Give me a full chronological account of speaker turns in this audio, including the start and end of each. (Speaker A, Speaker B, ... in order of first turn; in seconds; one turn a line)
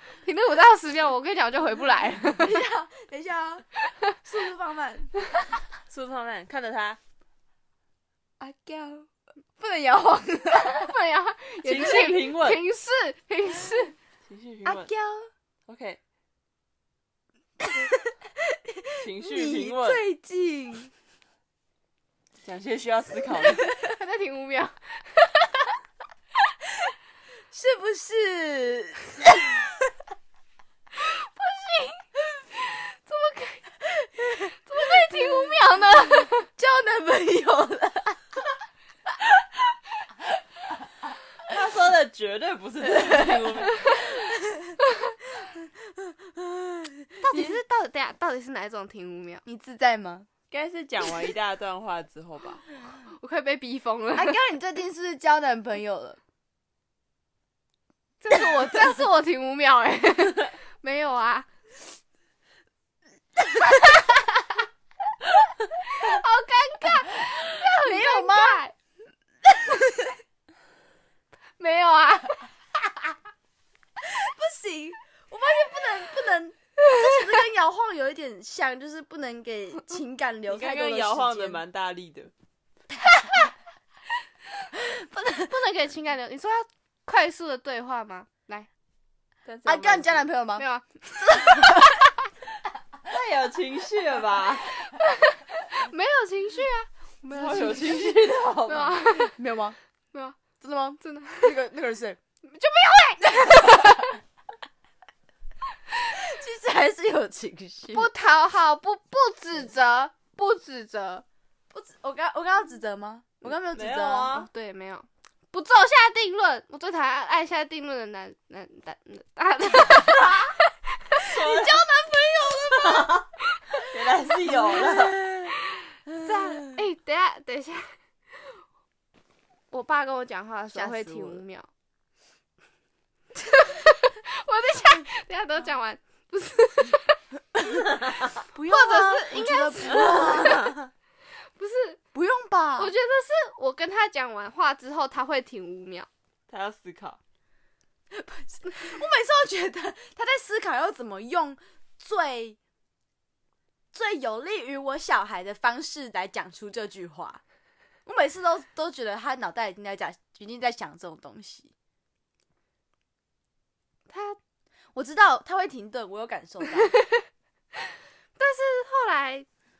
Speaker A: 0.2-2.6
Speaker B: 2.4-3.6
Speaker B: 4.2-5.2
Speaker C: 5.9-7.0
Speaker B: 8.4-10.9
Speaker A: 10.5-13.9
Speaker C: 11.6-12.6
Speaker C: 14.2-14.9
Speaker B: 14.6-15.3
Speaker C: 15.7-16.0
Speaker B: 17.6-20.9
Speaker C: 19.0-20.0
Speaker C: 22.4-23.7
Speaker A: 23.8-25.7
Speaker B: 27.5-29.8
Speaker A: 30.9-33.7
Speaker B: 34.0-35.5
Speaker A: 34.5-36.5
Speaker B: 36.6-38.3
Speaker C: 41.4-44.1
Speaker B: 42.8-44.8
Speaker A: 44.9-45.1
Speaker B: 45.3-47.5
Speaker A: 47.2-49.4
Speaker B: 49.4-50.3
Speaker C: 50.5-52.6
Speaker A: 53.1-54.4
Speaker B: 54.1-56.2
Speaker A: 58.2-61.5
Speaker A: 63.7-64.2
Speaker A: 65.8-68.7
Speaker B: 67.5-68.6
Speaker B: 69.4-70.2
Speaker A: 71.6-72.5
Speaker B: 74.0-81.6
Speaker C: 80.5-82.3
Speaker A: 85.1-88.7
Speaker C: 89.4-90.3
Speaker B: 89.6-90.7
Speaker A: 90.6-92.2
Speaker B: 91.2-92.0
Speaker C: 93.0-94.7
Speaker A: 94.8-99.3
Speaker C: 97.3-99.0
Speaker B: 99.1-99.8
Speaker A: 100.1-100.4
Speaker B: 100.6-102.2
Speaker A: 101.0-101.5
Speaker A: 102.4-104.2
Speaker B: 103.5-103.8
Speaker B: 106.1-108.1
Speaker A: 107.9-111.2
Speaker B: 111.7-114.4
Speaker C: 113.7-114.5
Speaker A: 114.3-121.3
Speaker B: 119.9-120.5
Speaker C: 121.2-121.9
Speaker B: 121.3-123.2
Speaker C: 122.5-125.2
Speaker A: 123.6-123.8
Speaker B: 124.5-125.5
Speaker B: 126.1-126.8
Speaker A: 126.2-128.6
Speaker A: 129.7-131.7
Speaker B: 130.7-131.4
Speaker A: 133.4-137.2
Speaker B: 138.5-140.9
Speaker A: 138.7-140.7
Speaker A: 141.6-142.0
Speaker B: 142.1-142.9
Speaker A: 142.8-146.1
Speaker C: 146.5-147.2
Speaker B: 148.1-152.6
Speaker B: 153.9-157.4
Speaker B: 158.1-161.7
Speaker A: 164.1-164.4
Speaker B: 164.9-166.9
Speaker A: 168.4-169.5